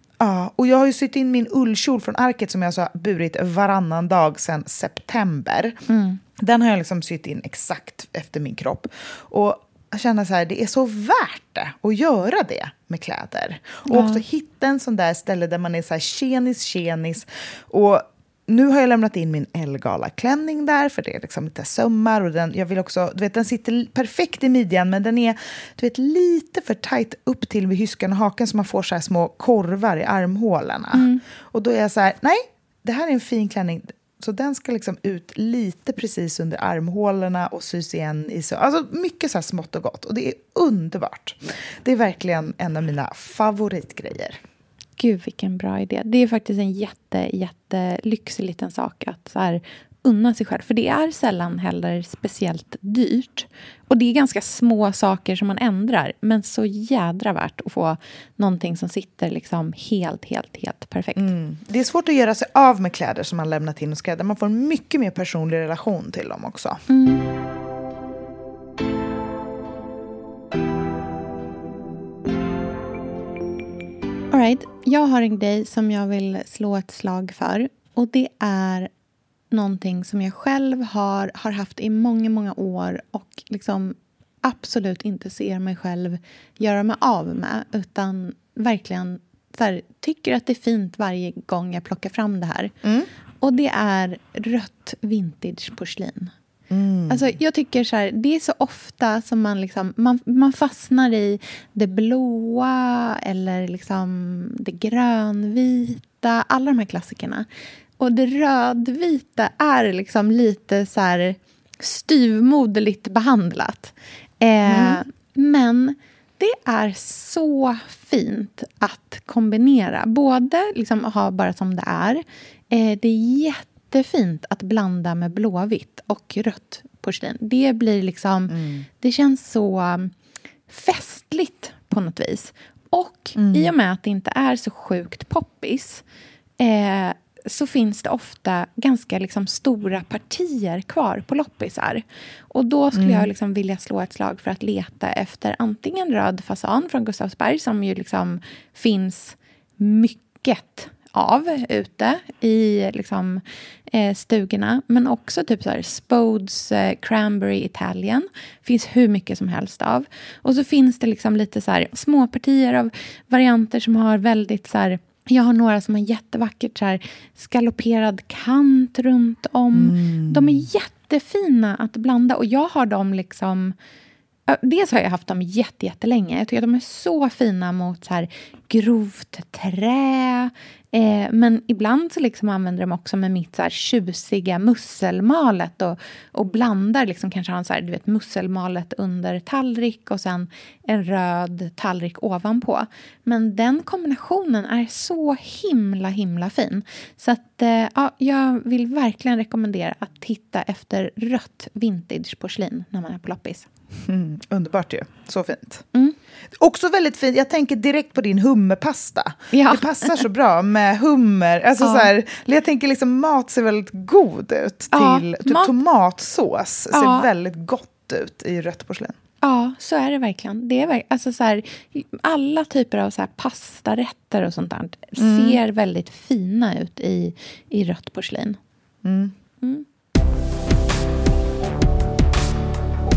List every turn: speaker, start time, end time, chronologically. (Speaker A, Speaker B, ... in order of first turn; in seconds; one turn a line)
Speaker A: 0.2-5.8
Speaker B: 5.9-6.2
Speaker A: 6.4-44.4
Speaker B: 13.9-14.2
Speaker B: 30.9-31.2
Speaker B: 45.0-61.3
Speaker A: 61.1-66.8
Speaker B: 66.9-67.2
Speaker B: 74.3-78.9
Speaker B: 79.5-92.7
Speaker B: 93.4-96.3
Speaker A: 96.7-97.3
Speaker B: 97.1-107.5
Speaker B: 108.0-130.1
Speaker A: 114.6-115.0
Speaker A: 128.5-128.8
Speaker B: 130.7-136.0
Speaker A: 133.4-133.7
Speaker B: 136.6-173.7
Speaker A: 142.9-143.3
Speaker A: 169.7-170.7
Speaker B: 174.5-203.7
Speaker A: 204.0-205.8
Speaker A: 206.6-219.1
Speaker B: 209.5-210.2
Speaker B: 211.8-212.1
Speaker B: 214.9-215.7
Speaker B: 216.9-217.3
Speaker B: 219.4-228.6
Speaker A: 225.2-225.6
Speaker A: 229.0-229.3